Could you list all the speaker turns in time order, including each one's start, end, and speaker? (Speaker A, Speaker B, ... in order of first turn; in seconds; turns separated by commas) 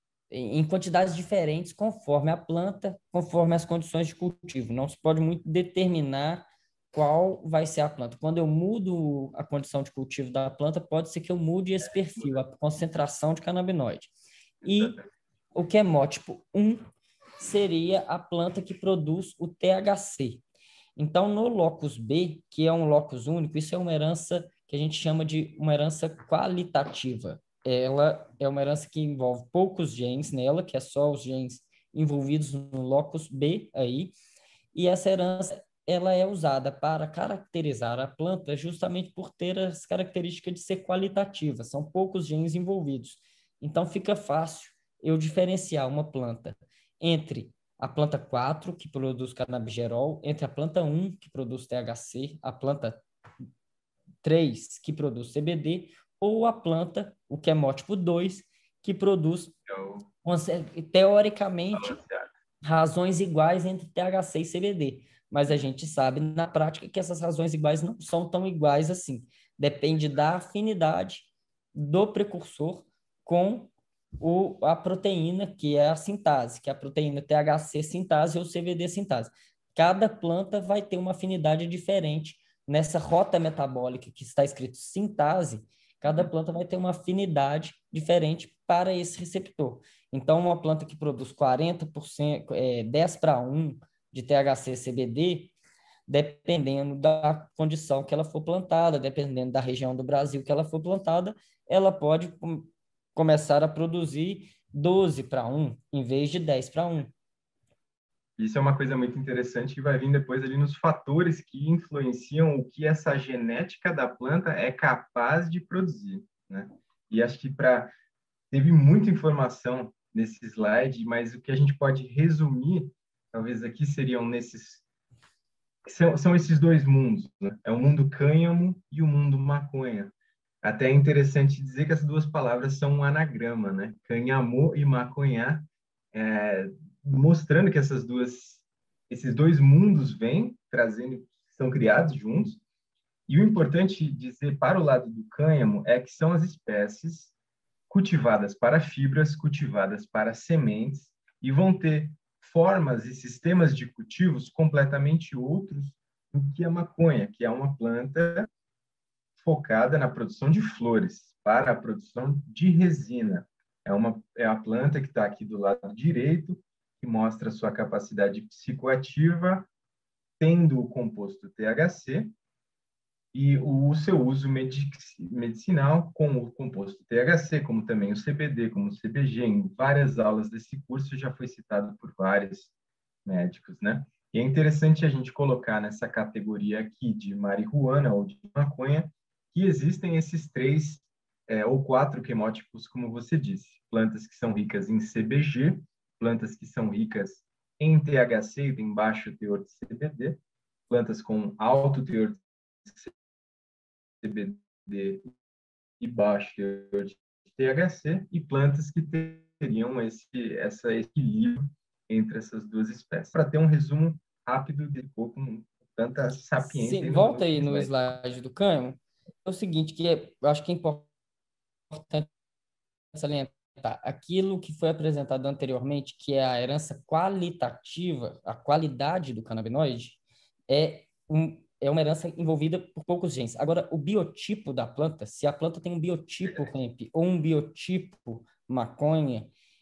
Speaker A: 0.3-14.9, Speaker B: 14.6-15.1, Speaker A: 15.5-16.8, Speaker A: 17.4-20.4, Speaker A: 20.9-34.1, Speaker A: 34.7-53.0, Speaker A: 54.2-59.5, Speaker B: 59.7-60.1, Speaker A: 60.2-62.0, Speaker B: 61.8-62.3, Speaker A: 62.6-95.5, Speaker A: 96.1-107.1, Speaker B: 108.4-117.9, Speaker B: 118.5-124.8, Speaker B: 125.8-142.6, Speaker B: 143.3-147.3, Speaker B: 147.9-158.5, Speaker B: 159.4-169.7, Speaker B: 170.4-172.3, Speaker B: 173.3-182.7, Speaker B: 183.2-203.1, Speaker B: 204.2-205.3, Speaker B: 206.0-217.9, Speaker A: 216.6-221.1, Speaker A: 221.9-222.3, Speaker A: 223.1-239.5, Speaker B: 236.4-236.7